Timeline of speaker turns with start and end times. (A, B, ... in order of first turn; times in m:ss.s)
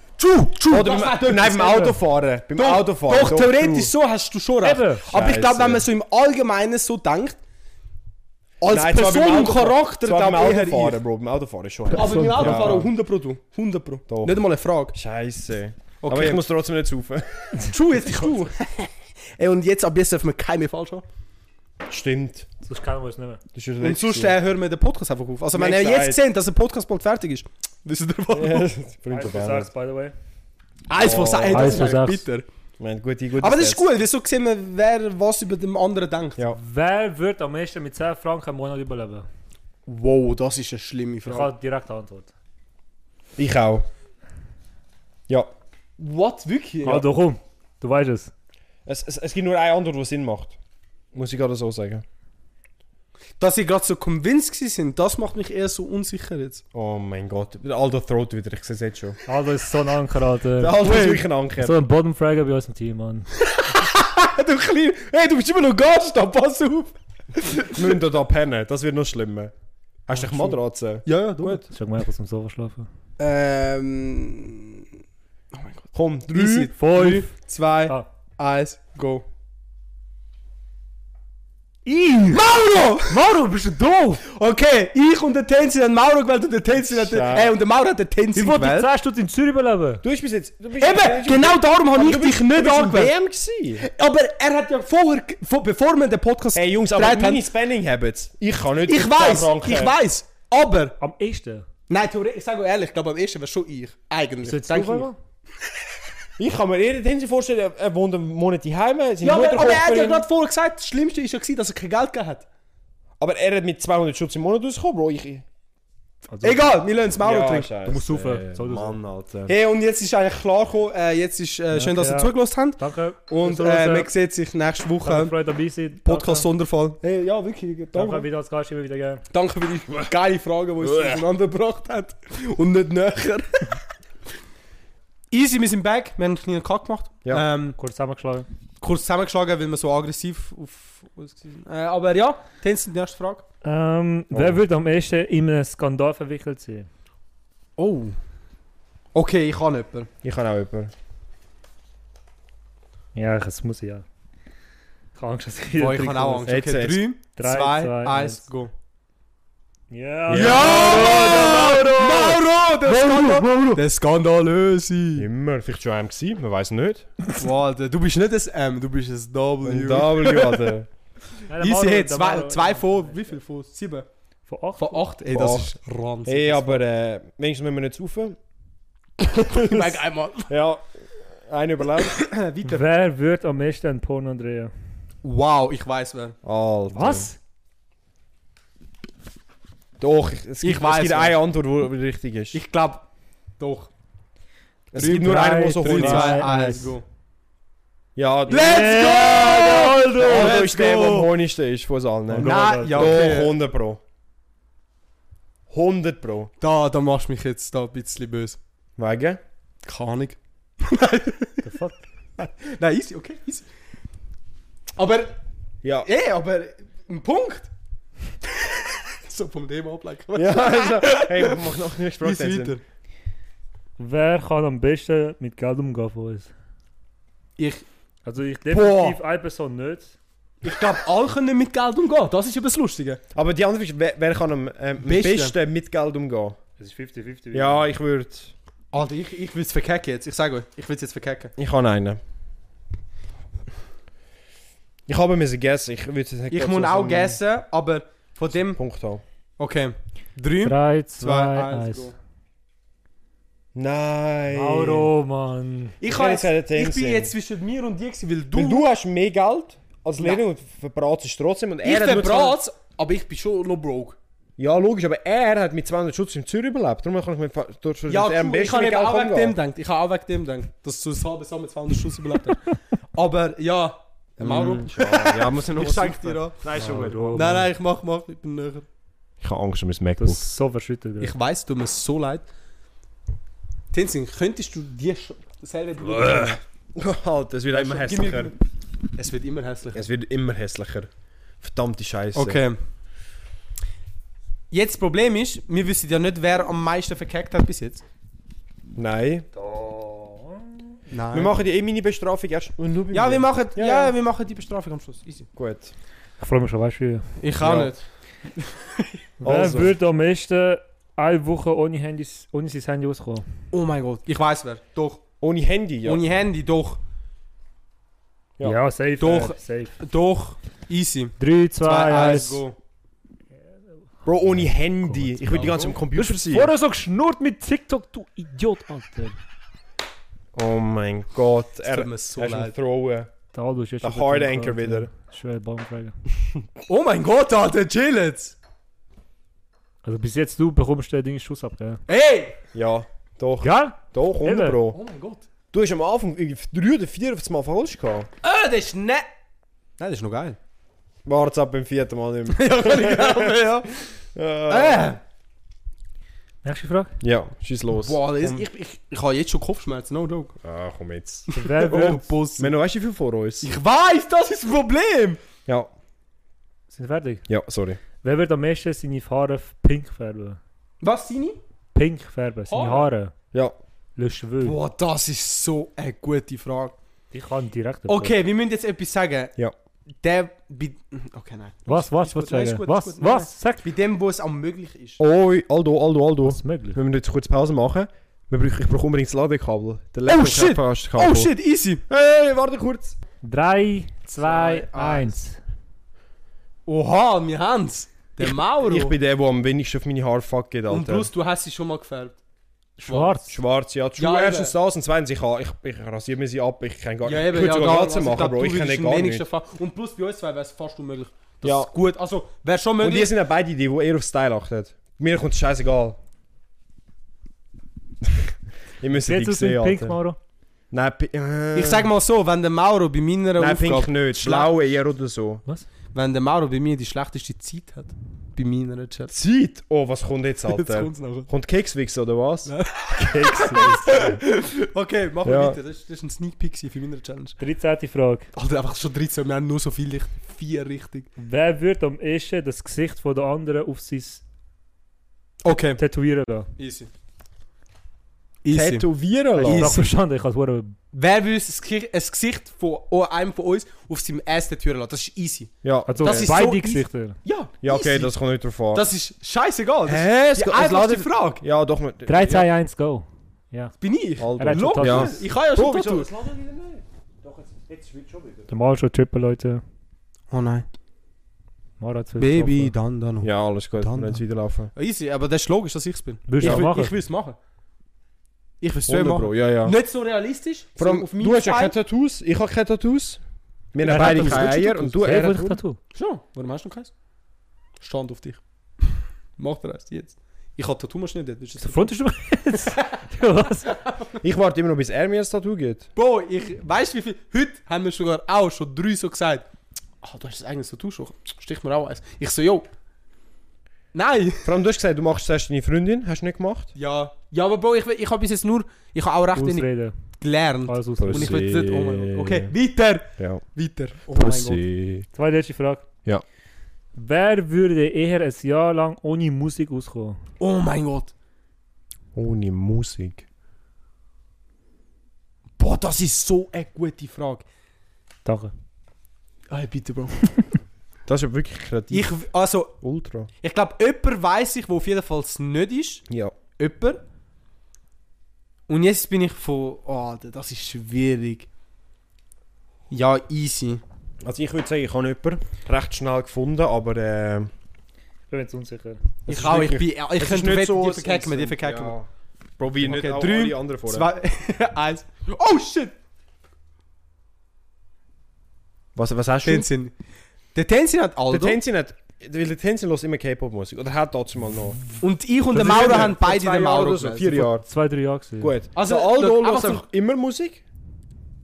0:00.2-0:02.0 A
0:00.7-0:03.9 B
0:02.5-0:07.4 A
0:04.6-0:05.1 C
0:05.0-0:05.9 B
0:08.6-0:11.0 A
0:08.6-0:12.9 B
0:11.9-0:15.0 A
0:12.0-0:12.9 C
0:14.1-0:14.4 B
0:14.9-0:17.5 B
0:16.0-0:16.4 A
0:17.6-0:21.0 A
0:21.8-0:22.5 B
0:22.6-0:23.4 C
0:23.5-0:24.4 B
0:23.8-0:28.7 A
0:25.5-0:26.2 B
0:28.3-0:29.7 B
0:29.1-0:30.1 C
0:30.9-0:32.4 A
0:31.0-0:31.9 B
0:31.5-0:32.2 C
0:32.8-0:33.9 B
0:33.4-0:36.4 A
0:36.6-0:39.2 C
0:39.8-0:41.5 A
0:41.2-0:42.3 C
0:43.4-0:43.8 B
0:46.0-0:47.0 A
0:46.8-0:48.3 C
0:48.8-0:50.6 B
0:51.1-0:52.0 B
0:53.4-0:56.6 A
0:56.7-0:59.2 B
0:59.3-1:03.3 C
1:00.6-1:01.8 B
1:00.8-1:01.2 A
1:03.4-1:07.8 A
1:07.7-1:09.5 B
1:10.1-1:11.6 B
1:10.1-1:11.6 A
1:11.6-1:12.9 C
1:13.2-1:14.8 A
1:15.5-1:19.2 A
1:15.9-1:16.7 B
1:16.8-1:17.3 C
1:21.8-1:22.5 C
1:22.3-1:23.2 A
1:23.0-1:24.2 C
1:24.3-1:28.9 A
1:26.9-1:27.6 B
1:28.3-1:30.0 C
1:30.0-1:33.8 B
1:30.8-1:33.1 A
1:33.8-1:37.4 A
1:36.5-1:40.0 B
1:38.8-1:40.9 A
1:41.0-1:41.6 C
1:41.9-1:45.1 A
1:44.4-1:45.1 C
1:46.4-1:50.2 B
1:49.2-1:52.4 A
1:53.2-1:55.4 B
1:56.3-1:56.8 C
1:56.4-1:57.8 A
1:57.2-1:59.6 B
1:57.9-1:58.9 C
1:59.5-2:05.3 A
2:01.7-2:04.1 C
2:05.0-2:06.5 C
2:06.0-2:08.2 A
2:07.9-2:09.2 C
2:09.3-2:13.8 A
2:10.8-2:11.2 B
2:15.3-2:17.8 A
2:17.8-2:18.5 C
2:18.8-2:23.4 A
2:23.6-2:26.9 C
2:24.3-2:24.6 B
2:27.8-2:28.2 A
2:29.1-2:30.1 A
2:30.2-2:30.9 B
2:33.1-2:34.0 C
2:35.1-2:36.5 C
2:35.8-2:38.7 A
2:36.4-2:37.0 B
2:37.4-2:38.4 C
2:39.9-2:43.8 C
2:40.3-2:41.8 B
2:40.3-2:45.3 A
2:45.2-2:47.1 B
2:47.4-2:50.7 A
2:49.6-2:50.9 B
2:51.5-2:53.3 C
2:51.6-2:54.1 A
2:54.5-2:55.0 C
2:54.8-2:56.8 A
2:55.3-2:58.4 B
2:59.3-3:00.8 B
2:59.4-3:00.5 A
3:01.4-3:02.2 B
3:02.1-3:02.8 A
3:02.6-3:04.7 C
3:05.2-3:06.4 A
3:06.4-3:07.3 B
3:06.9-3:07.4 C
3:10.0-3:12.6 B
3:10.6-3:11.4 A
3:12.5-3:13.0 A
3:13.6-3:13.9 A
3:14.9-3:16.4 B
3:15.0-3:16.9 C
3:15.0-3:17.0 A
3:18.2-3:19.1 B
3:18.5-3:21.3 A
3:18.5-3:20.7 C
3:19.8-3:24.0 B
3:22.3-3:23.3 C
3:22.4-3:23.5 A
3:25.7-3:26.5 B
3:26.6-3:28.6 A
3:29.0-3:29.4 B
3:29.8-3:31.7 A
3:31.6-3:32.0 C
3:32.4-3:33.6 A
3:35.0-3:35.4 A
3:35.8-3:36.1 B
3:36.0-3:37.7 A
3:38.4-3:42.8 A
3:40.3-3:42.8 B
3:44.0-3:46.5 C
3:47.6-3:47.8 A
3:48.2-3:50.1 C
3:48.7-3:49.2 A
3:50.6-3:53.2 A
3:53.3-3:56.6 B
3:55.0-3:55.5 A
3:56.8-3:57.8 C
3:57.5-3:58.5 B
3:58.9-4:01.5 A
4:01.6-4:02.2 B
4:05.1-4:07.4 B
4:06.5-4:08.8 A
4:08.6-4:09.2 B
4:09.6-4:12.2 A
4:10.6-4:12.1 C
4:13.7-4:15.1 B
4:14.5-4:16.0 C
4:16.0-4:18.9 A
4:16.1-4:17.3 B
4:18.5-4:22.6 B
4:21.8-4:24.2 A
4:24.6-4:29.6 B
4:28.1-4:32.6 A
4:33.1-4:38.8 A
4:34.4-4:37.6 B
4:36.7-4:37.7 C
4:39.4-4:40.4 B
4:40.2-4:41.4 C
4:41.2-4:42.4 A
4:43.9-4:46.6 A
4:46.0-4:48.5 B
4:47.7-4:48.6 A
4:49.2-4:50.1 A
4:49.9-4:51.1 B
4:51.6-4:52.6 B
4:52.3-4:52.8 A
4:54.7-4:58.0 A
4:58.9-4:59.5 B
4:59.6-5:00.8 C
5:01.1-5:01.5 A
5:01.3-5:04.1 B
5:03.1-5:05.5 A
5:05.5-5:05.9 B
5:06.4-5:07.3 C
5:07.4-5:08.0 A
5:07.6-5:07.9 B
5:08.6-5:09.1 A
5:09.4-5:09.9 B
5:09.4-5:13.5 C
5:13.7-5:15.2 A
5:15.4-5:16.2 B
5:16.0-5:17.0 A
5:18.6-5:20.0 C
5:19.2-5:22.8 A
5:21.4-5:22.6 C
5:24.2-5:26.7 B
5:25.0-5:29.4 C
5:30.5-5:33.3 B
5:31.8-5:32.7 A
5:33.5-5:36.1 C
5:34.0-5:35.1 B
5:36.9-5:38.6 A
5:40.0-5:42.0 C
5:42.1-5:42.6 A
5:42.7-5:45.0 B
5:43.6-5:44.8 C
5:44.9-5:45.4 A
5:45.7-5:48.3 B
5:48.4-5:49.3 A
5:50.0-5:50.6 A
5:51.2-5:53.6 B
5:52.5-5:54.0 A
5:54.3-5:55.2 B
5:54.7-5:55.2 A
5:56.6-5:57.1 C
5:57.2-5:58.6 B
5:58.0-6:00.5 A
6:00.6-6:01.5 B
6:01.5-6:02.7 A
6:01.6-6:02.3 C
6:02.6-6:03.7 B
6:03.6-6:05.4 A
6:06.9-6:07.4 C
6:07.5-6:08.0 B
6:08.2-6:10.6 C
6:11.0-6:11.6 A
6:11.9-6:13.3 C
6:12.7-6:13.1 A
6:14.2-6:14.8 C
6:14.6-6:16.9 A
6:17.3-6:18.3 C
6:18.1-6:19.5 A
6:20.2-6:25.2 A
6:21.9-6:23.9 C
6:25.2-6:31.5 B
6:26.4-6:27.0 C
6:30.3-6:32.0 A
6:32.1-6:33.1 B
6:33.4-6:35.6 C
6:34.3-6:35.4 A
6:36.8-6:39.1 A
6:38.4-6:41.3 B
6:40.9-6:42.4 A
6:43.0-6:43.5 C
6:43.0-6:43.4 A
6:43.5-6:49.4 B
6:44.2-6:44.7 A
6:47.2-6:53.3 A
6:51.6-6:51.9 B
6:53.0-6:56.2 B
6:59.0-7:00.2 B
6:59.2-7:00.4 C
7:00.9-7:02.1 B
7:01.7-7:04.7 A
7:03.6-7:05.6 B
7:06.1-7:09.3 A
7:09.3-7:12.7 B
7:10.7-7:11.5 A
7:12.7-7:17.6 A
7:13.2-7:14.4 C
7:15.4-7:15.8 B
7:17.6-7:18.5 C
7:18.5-7:21.3 A
7:21.4-7:24.4 C
7:25.6-7:26.0 A
7:25.8-7:26.7 C
7:26.8-7:27.1 A
7:28.6-7:30.1 A
7:28.7-7:29.9 B
7:29.7-7:30.9 C
7:31.1-7:38.3 A
7:35.8-7:36.6 B
7:36.1-7:37.4 C
7:37.8-7:39.1 B
7:38.9-7:41.6 A
7:40.1-7:42.7 B
7:42.2-7:43.9 C
7:44.0-7:46.3 A
7:44.4-7:48.7 B
7:44.6-7:45.4 C
7:48.7-7:49.8 C
7:50.5-7:50.8 A
7:52.0-7:52.9 C
7:52.4-7:54.4 A
7:53.4-7:54.9 B
7:54.9-7:57.6 A
7:56.5-7:57.2 C
7:58.8-8:02.0 A
7:59.1-8:00.0 B
8:01.0-8:03.4 B
8:03.9-8:05.8 B
8:04.0-8:05.1 A
8:04.0-8:06.0 C
8:06.1-8:07.1 A
8:08.0-8:12.1 A
8:11.8-8:14.0 C
8:12.8-8:13.2 A
8:13.8-8:14.4 A
8:14.4-8:16.1 B
8:16.2-8:19.6 A
8:20.2-8:22.9 A
8:24.1-8:24.7 A
8:24.6-8:26.9 B
8:26.9-8:29.9 A
8:29.5-8:30.1 C
8:30.4-8:34.8 A
8:30.9-8:31.6 C
8:31.2-8:32.7 B
8:33.4-8:33.6 B
8:34.3-8:35.3 B
8:35.3-8:36.0 C
8:37.1-8:40.4 C
8:40.6-8:41.3 A
8:42.3-8:43.4 B
8:45.8-8:47.6 A
8:48.4-8:48.7 C
8:49.7-8:50.5 A
8:51.3-8:52.4 B
8:52.1-8:52.9 A
8:53.0-8:53.5 B
8:53.6-8:56.2 A
8:56.3-8:56.5 B
8:56.8-8:57.2 A
8:58.9-9:01.7 A
9:03.1-9:04.0 A
9:04.4-9:07.7 B
9:08.5-9:09.2 C
9:09.4-9:12.2 A
9:09.4-9:12.3 B
9:12.8-9:14.3 B
9:13.0-9:16.1 A
9:19.2-9:19.9 B
9:19.6-9:20.1 A
9:20.7-9:21.8 A
9:21.5-9:25.0 B
9:25.2-9:27.6 A
9:25.7-9:27.8 B
9:27.8-9:28.7 C
9:28.6-9:30.8 B
9:28.9-9:30.0 A